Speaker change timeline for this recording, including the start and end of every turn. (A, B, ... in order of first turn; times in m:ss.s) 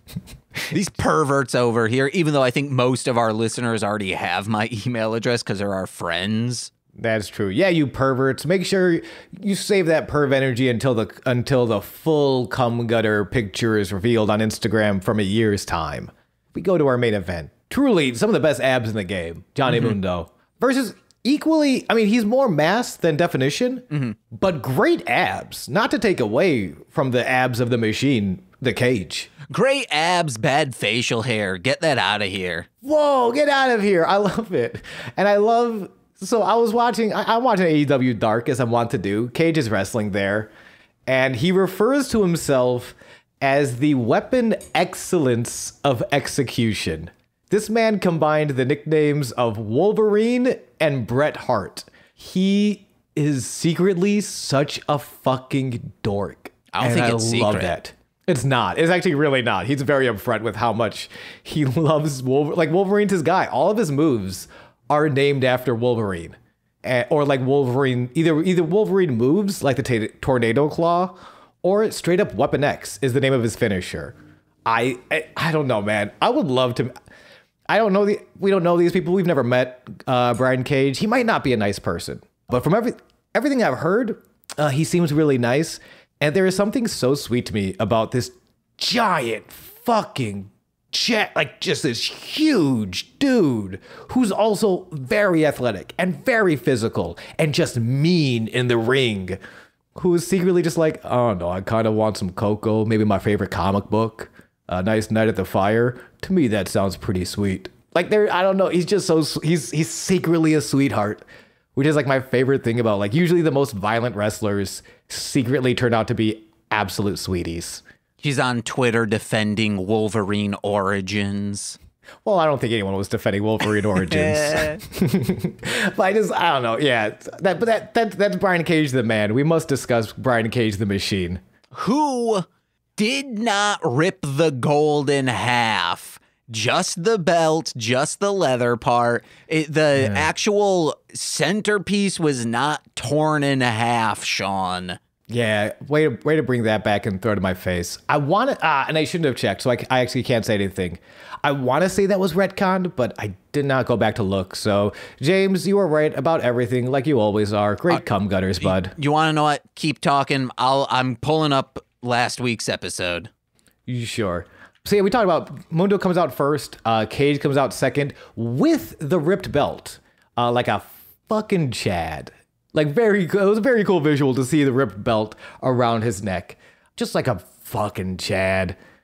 0:00.7-0:06.7 A
0:07.0-0:29.3 B
0:19.7-0:19.9 A
0:23.9-0:24.2 A
0:29.5-0:32.7 A
0:32.8-0:40.5 B
0:41.1-1:16.9 B
0:56.7-0:57.7 A
1:17.7-1:39.4 B
1:39.9-1:51.2 B
1:51.7-1:57.8 B
1:58.2-2:01.8 A
2:02.2-2:11.4 B
2:03.9-2:04.8 A
2:11.7-2:12.4 A
2:13.0-2:25.0 A
2:19.9-2:20.3 B
2:25.3-2:38.9 B
2:38.6-2:43.3 A
2:43.9-2:58.8 B